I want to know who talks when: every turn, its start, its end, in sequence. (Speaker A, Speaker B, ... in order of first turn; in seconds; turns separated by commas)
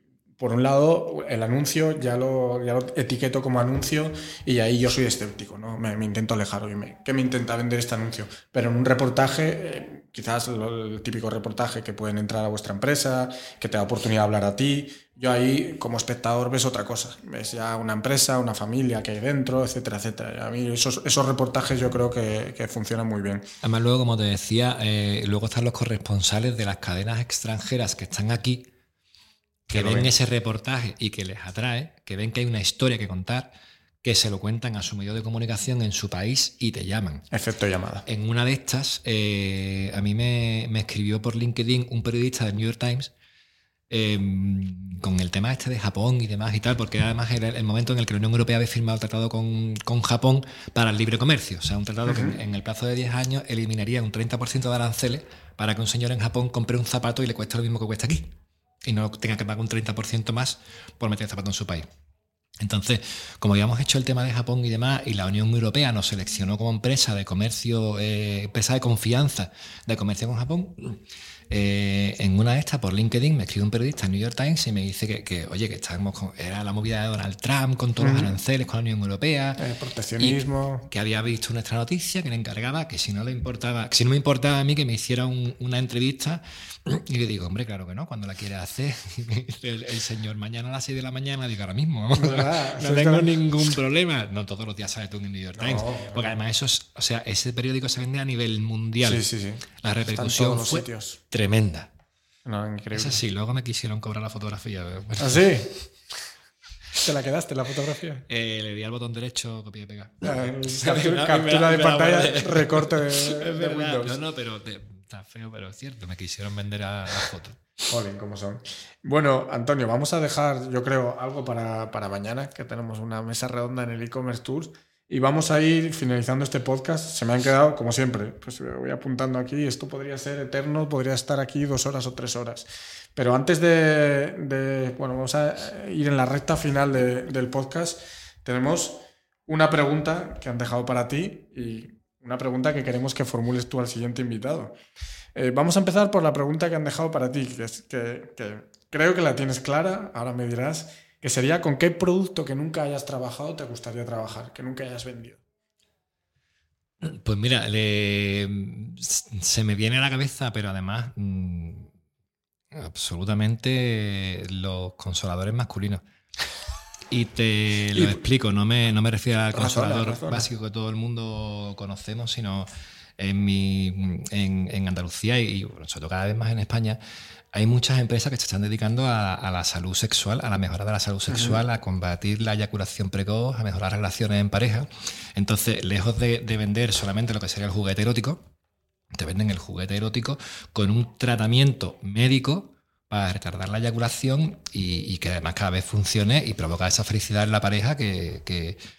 Speaker A: 0.4-23.5, Speaker B: 23.6-28.7, Speaker B: 29.7-37.3, Speaker A: 29.7-30.1, Speaker A: 37.3-38.0, Speaker B: 38.0-43.1, Speaker B: 43.9-61.9, Speaker A: 52.0-52.4, Speaker B: 62.6-79.6, Speaker A: 78.0-78.3, Speaker A: 79.6-80.9, Speaker B: 80.2-101.9, Speaker A: 92.1-93.4, Speaker A: 95.5-96.3, Speaker A: 99.0-101.2, Speaker A: 102.4-103.2, Speaker B: 102.9-105.7, Speaker A: 105.2-105.8, Speaker A: 106.9-108.2, Speaker B: 108.3-117.6, Speaker A: 110.2-114.2, Speaker A: 117.9-144.7, Speaker A: 145.3-155.4, Speaker B: 157.0-161.9, Speaker B: 162.7-166.0, Speaker B: 167.1-177.0, Speaker A: 169.5-170.5, Speaker B: 177.5-188.4, Speaker A: 181.3-181.6, Speaker B: 189.1-198.8